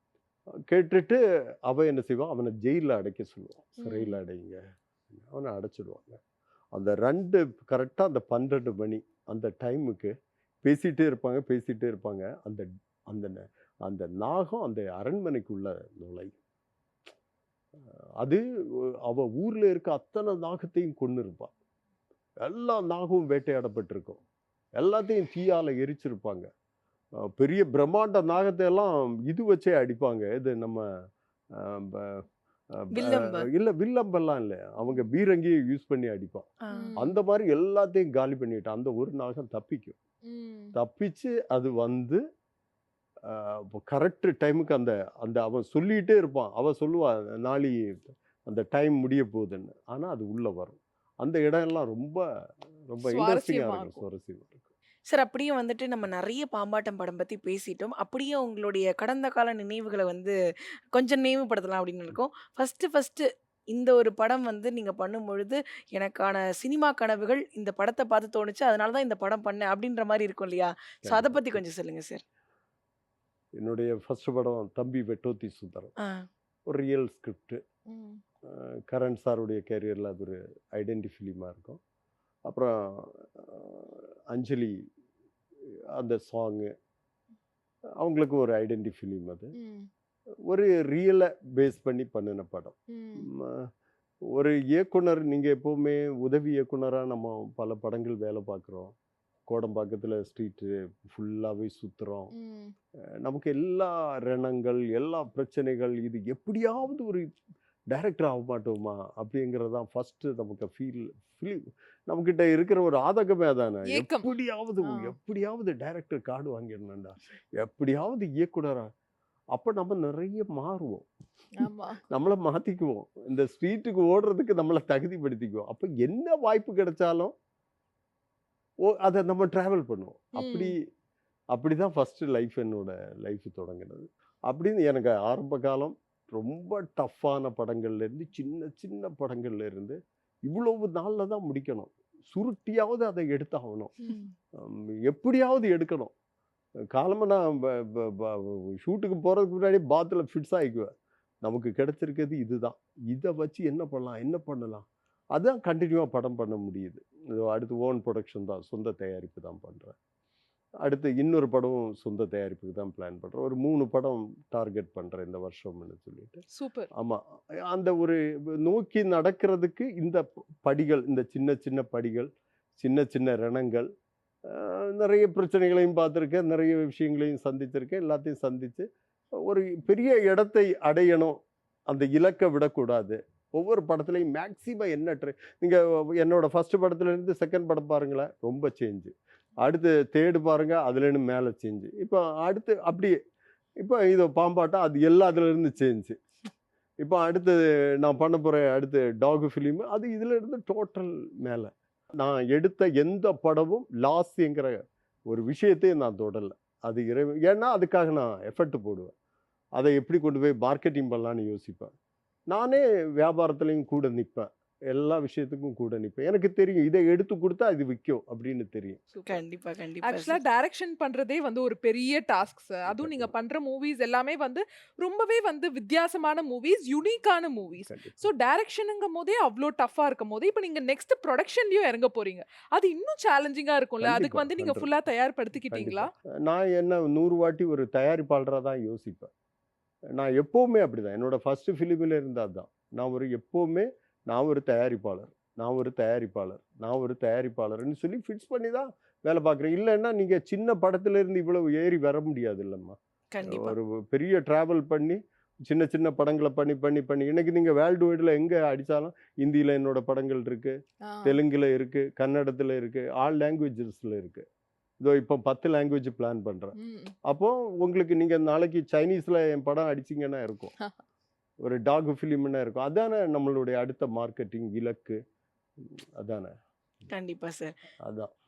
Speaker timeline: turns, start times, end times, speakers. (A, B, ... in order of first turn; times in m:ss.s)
0:00.7-0:06.2 A
0:03.8-0:04.2 B
0:06.7-0:16.4 A
0:17.8-0:18.4 A
0:19.0-0:21.5 A
0:22.4-0:24.2 A
0:24.8-0:26.5 A
0:27.4-0:30.8 A
0:31.5-0:40.0 A
0:32.9-0:33.5 C
0:36.6-0:36.9 C
0:36.7-0:37.2 B
0:40.3-0:40.8 B
0:40.8-0:42.2 A
0:43.3-0:52.2 A
0:52.9-0:54.7 A
0:53.0-0:54.0 B
0:55.1-1:00.3 C
1:00.9-1:12.2 C
1:11.0-1:11.6 A
1:13.6-1:15.9 A
1:16.7-1:17.6 A
1:17.9-1:18.2 B
1:18.5-1:21.8 A
1:22.5-1:24.8 A
1:26.0-1:26.7 A
1:28.0-1:29.5 A
1:29.6-1:29.9 B
1:30.5-1:33.7 A
1:32.9-1:33.3 B
1:34.3-1:39.0 A
1:39.5-1:42.3 A
1:42.3-1:42.7 B
1:43.2-1:47.4 A
1:47.9-1:58.9 A
1:53.9-1:55.1 B
1:59.5-2:01.1 A
2:01.6-2:02.0 B
2:02.1-2:07.3 A
2:08.8-2:10.8 A
2:10.4-2:10.8 B
2:11.5-2:23.9 A
2:24.6-2:26.1 A
2:26.9-2:30.9 A
2:31.4-2:40.0 A
2:40.8-2:46.4 A
2:46.6-2:46.9 B
2:46.9-2:53.9 A
2:54.4-2:58.9 A
2:59.4-3:13.2 A
3:13.8-3:16.2 A
3:17.0-3:29.1 A
3:29.8-3:31.9 A
3:32.5-3:39.0 A
3:39.1-3:39.4 B
3:39.3-3:40.4 C
3:40.0-3:56.1 B
3:42.9-3:43.3 A
3:47.9-3:48.3 A
3:54.0-3:54.9 A
3:55.6-3:59.3 A
4:00.1-4:24.5 A
4:13.3-4:13.8 C
4:21.0-4:21.4 B
4:25.0-4:30.7 A
4:26.8-4:27.2 B
4:31.6-4:35.2 A
4:35.8-4:36.6 A
4:37.1-4:37.8 C
4:38.0-4:38.3 A